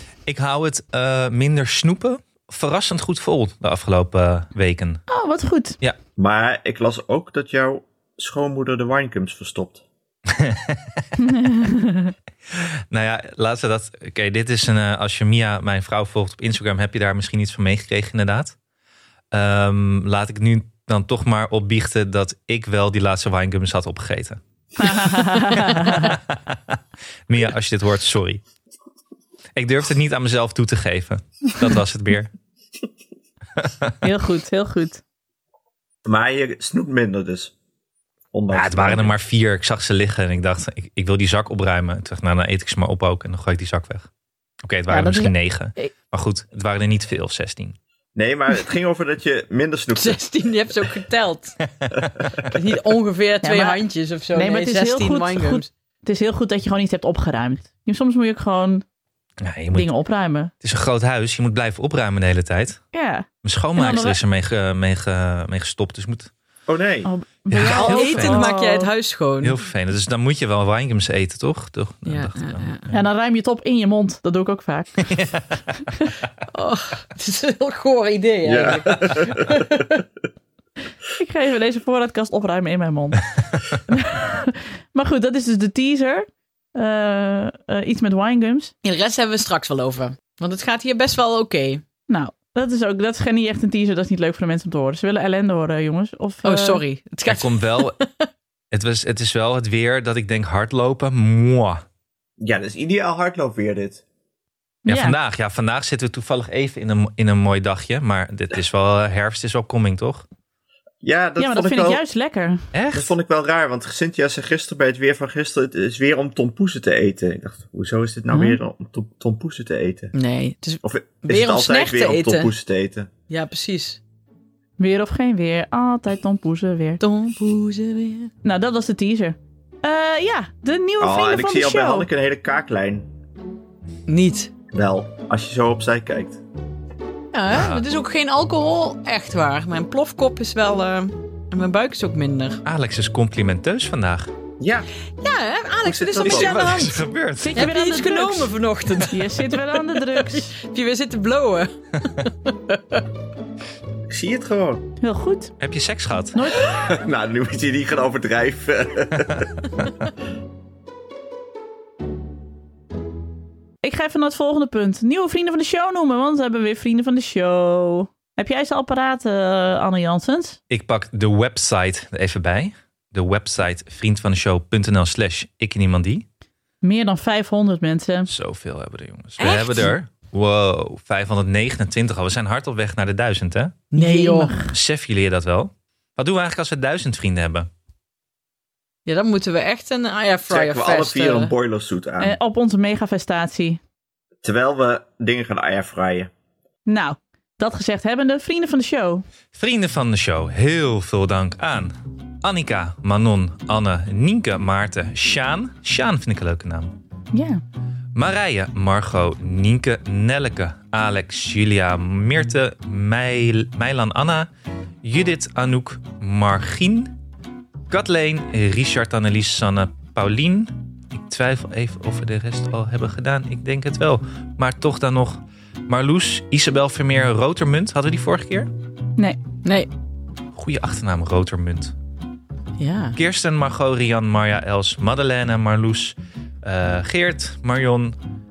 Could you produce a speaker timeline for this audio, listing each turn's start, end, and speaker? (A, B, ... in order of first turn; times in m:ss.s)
0:00.2-0:05.0 A
0:05.1-0:05.8 B
0:06.2-0:09.8 C
0:10.3-0:11.0 A
0:11.2-0:12.1 B
0:12.5-0:18.5 A
0:19.3-0:26.8 A
0:24.8-0:26.2 B
0:27.3-0:28.4 A
0:29.6-0:32.3 A
0:33.6-0:33.9 A
0:34.0-0:35.0 B
0:36.0-0:37.5 C
0:38.3-0:39.1 C
0:38.5-0:44.1 A
0:44.6-0:47.8 A
0:44.9-0:45.9 B
0:48.2-0:50.2 C
0:50.0-0:51.6 D
0:51.8-0:52.1 A
0:52.4-0:55.7 D
0:53.4-0:58.8 B
0:59.4-0:59.9 A
0:59.7-1:00.5 B
1:00.6-1:02.8 A
1:02.9-1:04.2 B
1:03.4-1:06.3 A
1:06.7-1:07.1 C
1:07.0-1:08.9 B
1:07.5-1:08.5 A
1:07.7-1:09.6 D
1:09.4-1:13.0 A
1:12.1-1:12.8 D
1:12.9-1:14.9 B
1:15.0-1:15.9 A
1:16.5-1:20.0 D
1:18.4-1:19.7 C
1:21.2-1:23.2 B
1:23.9-1:28.7 B
1:28.8-1:31.8 D
1:32.1-1:36.8 B
1:36.4-1:38.3 D
1:37.3-1:37.9 A
1:38.7-1:41.8 A
1:42.4-1:44.0 C
1:44.8-1:45.2 B
1:44.9-1:50.2 A
1:51.0-1:52.0 C
1:51.4-1:52.6 B
1:52.7-1:53.1 A
1:52.9-2:00.1 C
1:58.3-1:58.6 B
2:00.1-2:02.5 D
2:00.8-2:03.1 C
2:03.3-2:04.0 D
2:04.8-2:07.0 B
2:07.0-2:08.3 D
2:08.4-2:12.1 B
2:11.0-2:13.1 C
2:14.1-2:14.5 D
2:14.7-2:16.4 C
2:17.3-2:22.6 D
2:17.5-2:17.8 A
2:22.6-2:24.3 A
2:24.6-2:24.9 C
2:25.2-2:27.0 D
2:25.8-2:26.6 C
2:26.2-2:27.7 A
2:27.4-2:28.5 B
2:27.6-2:33.0 D
2:29.1-2:30.5 B
2:34.1-2:34.8 C
2:35.0-2:35.5 B
2:35.6-2:36.4 A
2:36.3-2:36.7 B
2:36.6-2:39.5 C
2:43.8-2:50.6 B
2:50.7-2:56.2 A
2:56.8-2:58.3 B
2:58.3-3:03.8 A
2:59.4-2:59.9 D
3:03.9-3:04.6 D
3:03.9-3:04.8 B
3:04.6-3:07.7 A
3:09.1-3:11.5 D
3:10.5-3:12.4 C
3:12.2-3:13.8 B
3:14.4-3:16.3 C
3:16.9-3:19.2 B
3:19.5-3:26.9 A
3:27.3-3:27.6 B
3:28.1-3:34.5 A
3:35.0-3:37.1 A
3:37.9-3:48.7 A
3:49.6-3:49.9 D
3:50.5-3:51.9 A
3:52.8-3:53.2 D
3:53.2-3:58.1 A